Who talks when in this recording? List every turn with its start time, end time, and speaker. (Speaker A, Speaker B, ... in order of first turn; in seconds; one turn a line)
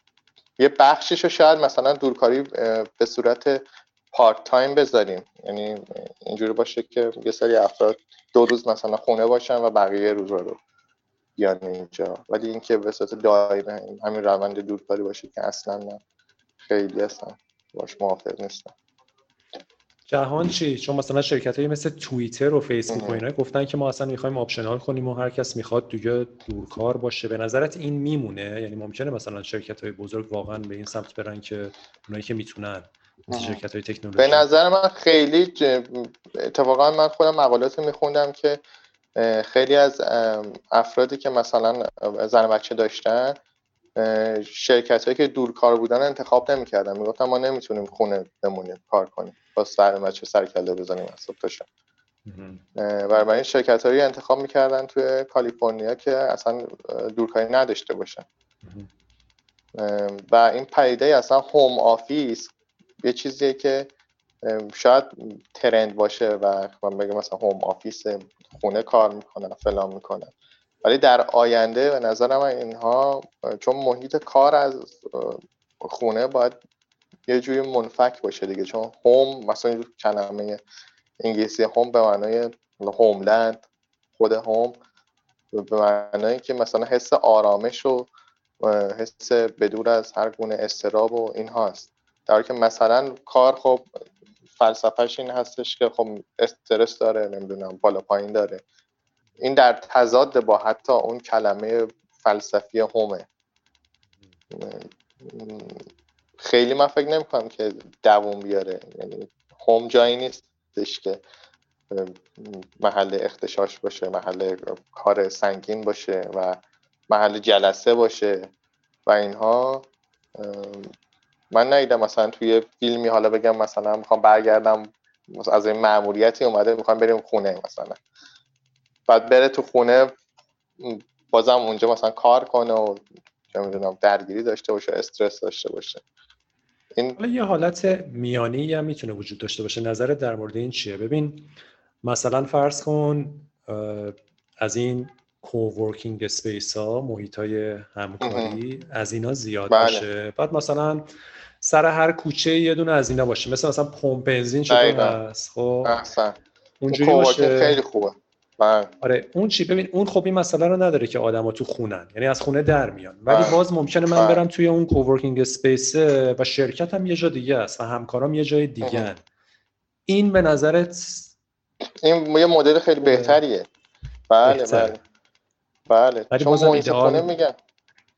Speaker A: 0.6-10.6
Speaker A: 11.4-16.0
Speaker A: 16.6-18.7
Speaker B: 20.1-34.5
Speaker A: 22.9-23.2
Speaker A: 33.3-33.6
Speaker A: 34.2-38.6
Speaker A: 39.2-43.4
Speaker A: 44.0-51.6
Speaker B: 52.3-52.6
Speaker A: 52.8-58.3
Speaker A: 59.8-63.9
Speaker A: 64.4-70.3
Speaker A: 70.8-76.6
Speaker A: 77.3-80.6
Speaker A: 81.2-83.6
Speaker A: 84.2-84.8
Speaker A: 85.5-88.1
Speaker A: 88.6-93.9
Speaker A: 94.6-98.6
Speaker A: 99.4-103.3
Speaker A: 104.5-105.8
Speaker A: 106.4-111.2
Speaker A: 111.9-116.6
Speaker A: 117.1-118.5
Speaker A: 119.1-120.9
Speaker A: 121.5-128.0
Speaker A: 129.1-130.1
Speaker A: 130.8-136.0
Speaker B: 137.2-141.5
Speaker B: 142.0-151.1
Speaker A: 148.2-148.6
Speaker A: 149.7-150.1
Speaker B: 151.6-156.0
Speaker A: 154.7-155.2
Speaker A: 155.8-156.4
Speaker B: 156.8-157.8
Speaker A: 156.9-158.9
Speaker B: 159.0-169.2
Speaker A: 163.3-163.6
Speaker A: 164.1-164.4
Speaker A: 168.8-169.1
Speaker B: 170.1-171.3
Speaker A: 172.0-173.7
Speaker B: 173.0-173.4
Speaker A: 174.3-175.0
Speaker B: 174.4-175.0
Speaker A: 175.9-177.6
Speaker B: 176.3-177.3